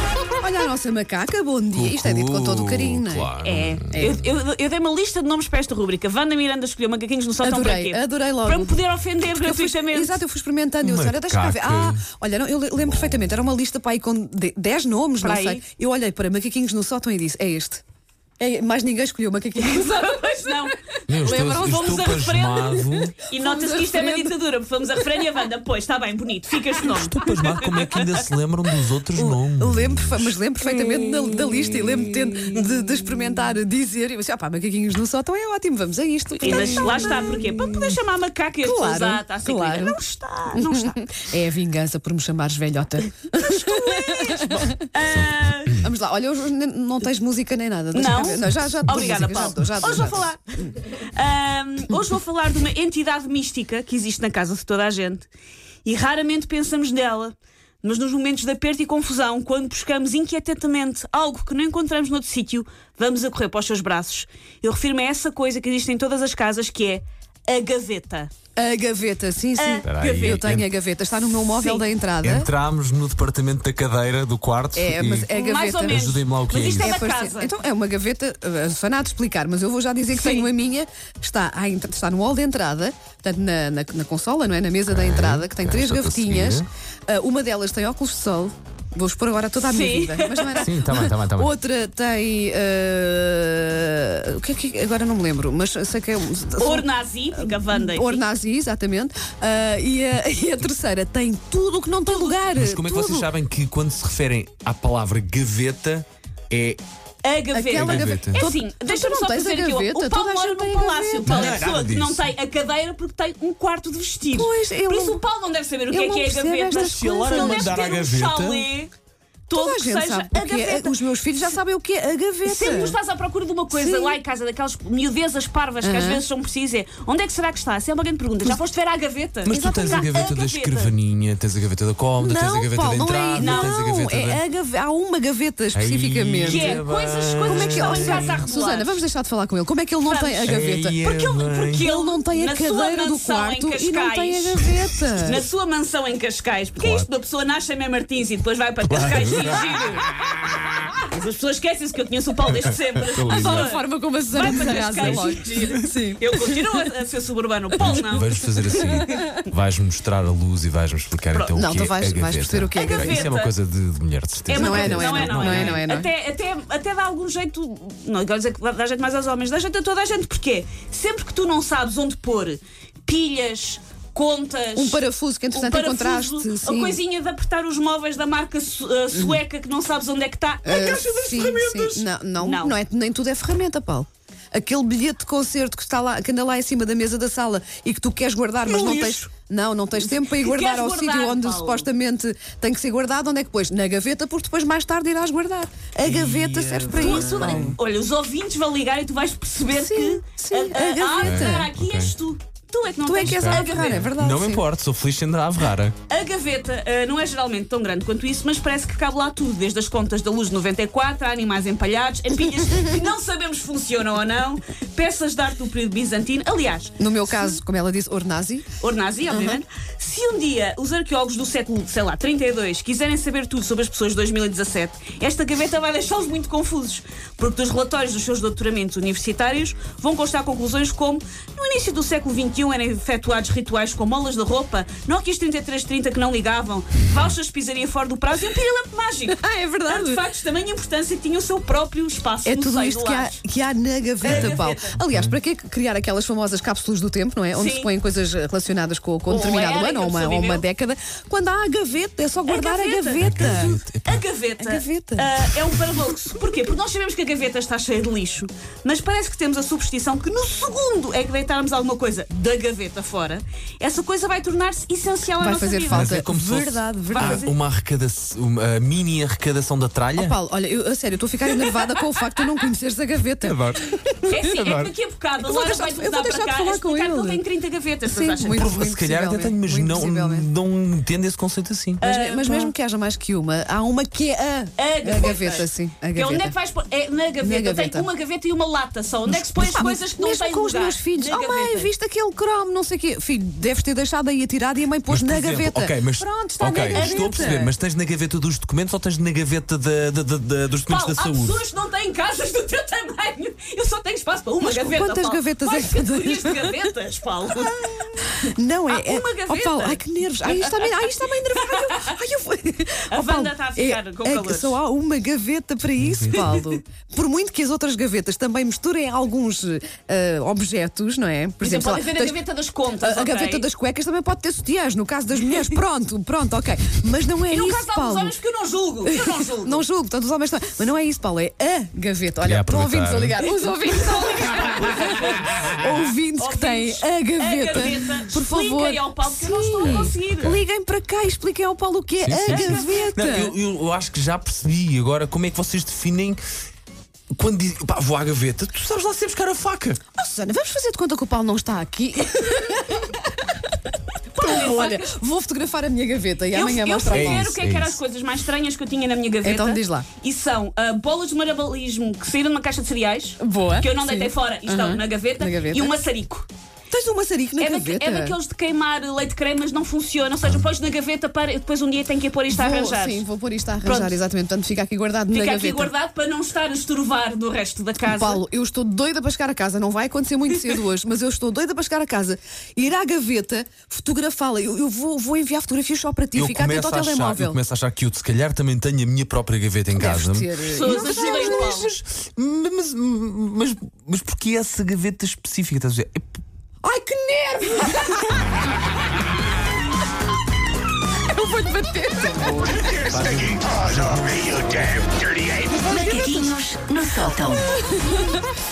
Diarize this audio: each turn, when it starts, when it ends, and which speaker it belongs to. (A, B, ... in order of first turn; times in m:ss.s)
0:00.4-0:03.3 A
0:01.7-0:04.4 B
0:03.4-0:10.2 C
0:03.9-0:04.2 A
0:07.4-0:17.8 A
0:10.8-0:12.0 B
0:15.2-0:15.6 C
0:18.4-0:20.7 A
0:19.6-0:20.7 C
0:21.1-0:23.2 B
0:21.2-0:22.0 A
0:21.2-0:28.2 C
0:22.8-0:24.3 A
0:25.0-0:25.3 A
0:26.8-0:30.4 B
0:29.1-0:37.7 A
0:36.4-0:41.0 C
0:38.6-0:40.0 A
0:40.5-0:44.9 A
0:43.4-0:45.9 C
0:45.8-0:50.2 A
0:47.9-0:55.3 C
0:55.8-1:08.3 C
1:08.6-1:12.5 A
1:09.6-1:10.4 C
1:09.8-1:10.7 B
1:11.5-1:11.8 C
1:12.2-1:15.3 B
1:14.7-1:16.1 A
1:15.3-1:17.5 C
1:15.8-1:17.0 B
1:16.8-1:43.3 A
1:20.1-1:20.5 C
1:24.9-1:26.7 B
1:29.6-1:30.7 C
1:30.6-1:31.5 B
1:36.6-1:38.2 C
1:42.0-1:42.4 C
1:42.5-1:46.8 B
1:47.2-1:58.9 C
1:47.5-1:51.5 A
1:47.7-1:48.4 B
1:51.2-1:52.2 B
1:54.3-1:55.2 A
1:55.9-1:58.0 A
1:56.7-1:58.7 B
1:59.5-2:00.9 C
1:59.5-2:03.0 A
2:02.4-2:10.9 C
2:03.7-2:04.2 A
2:05.8-2:06.2 A
2:09.4-2:14.4 B
2:09.4-2:10.4 A
2:12.2-2:16.8 A
2:13.4-2:13.8 C
2:15.7-2:18.4 B
2:16.4-2:19.0 C
2:17.4-2:21.0 A
2:20.0-2:24.7 C
2:20.5-2:21.8 B
2:21.8-2:25.4 A
2:25.2-2:30.0 C
2:26.8-2:27.1 B
2:28.8-2:29.6 B
2:30.9-2:39.2 C
2:33.1-2:33.7 B
2:33.3-2:36.9 A
2:34.4-2:35.6 B
2:37.8-2:45.8 B
2:38.6-2:39.4 A
2:41.3-2:41.6 C
2:41.5-2:43.3 A
2:42.7-2:43.5 C
2:44.5-2:46.1 A
2:44.5-3:01.1 C
2:54.7-2:57.0 A
2:59.1-2:59.4 A
3:00.6-3:17.8 A
3:00.6-3:02.0 B
3:02.4-3:02.7 C
3:08.6-3:09.2 C
3:10.0-3:11.9 C
3:16.0-3:17.8 B
3:16.9-3:24.0 C
3:19.7-3:21.7 A
3:21.2-3:22.1 B
3:23.0-3:24.6 A
3:23.2-3:25.9 B
3:26.1-3:37.6 C
3:37.0-3:38.6 A
3:38.8-4:03.4 C
3:39.2-3:39.6 A
3:59.3-4:00.2 A
4:02.4-4:13.8 A
4:04.2-4:05.0 C
4:04.2-4:05.4 B
4:07.5-4:07.9 C
4:09.3-4:10.6 C
4:12.4-4:26.1 C
4:13.2-4:14.2 B
4:14.6-4:15.3 A
4:25.4-4:27.4 A
4:25.9-4:30.4 B
4:27.1-4:27.5 C
4:30.1-4:34.7 A
4:33.4-4:34.9 B
4:34.2-4:38.6 C
4:35.4-4:37.4 A
4:38.1-4:40.5 A
4:38.5-4:42.0 B
4:42.0-4:42.7 C
4:42.0-4:46.5 A
4:44.8-4:51.9 C
4:47.4-4:48.1 A
4:49.5-4:57.7 A
4:55.1-5:01.6 B
4:56.9-4:57.5 C
5:00.9-5:11.0 C
5:04.6-5:06.9 A
5:07.6-5:22.4 A
5:11.6-5:12.1 C
5:13.1-5:14.8 C
5:16.0-5:16.5 B
5:16.4-5:16.8 C
5:21.6-5:23.6 C
5:23.0-5:28.3 A
5:27.5-5:29.8 C
5:29.0-5:43.5 A
5:32.4-5:33.4 B
5:33.5-5:35.4 C
5:35.4-5:35.7 B
5:36.4-5:40.6 C
5:39.8-5:40.6 B
5:42.2-5:46.4 B
5:42.4-5:42.9 C
5:47.3-5:50.0 B
5:50.1-5:53.7 A
5:54.3-5:57.5 A
5:54.4-5:55.0 C
5:56.5-6:06.5 C
5:57.1-5:58.0 B
5:59.4-6:00.0 A
6:03.4-6:06.0 A
6:06.9-6:08.4 A
6:07.6-6:13.2 C
6:12.5-6:15.9 A
6:13.8-6:14.2 C
6:15.3-6:18.4 C
6:18.0-6:27.6 A
6:26.4-6:36.4 B
6:29.9-6:31.9 A
6:30.7-6:31.9 C
6:36.8-6:38.4 A
6:41.3-6:43.0 A
6:42.7-6:46.5 D
6:43.0-6:45.1 B
6:45.7-6:46.6 A
6:47.2-6:48.4 A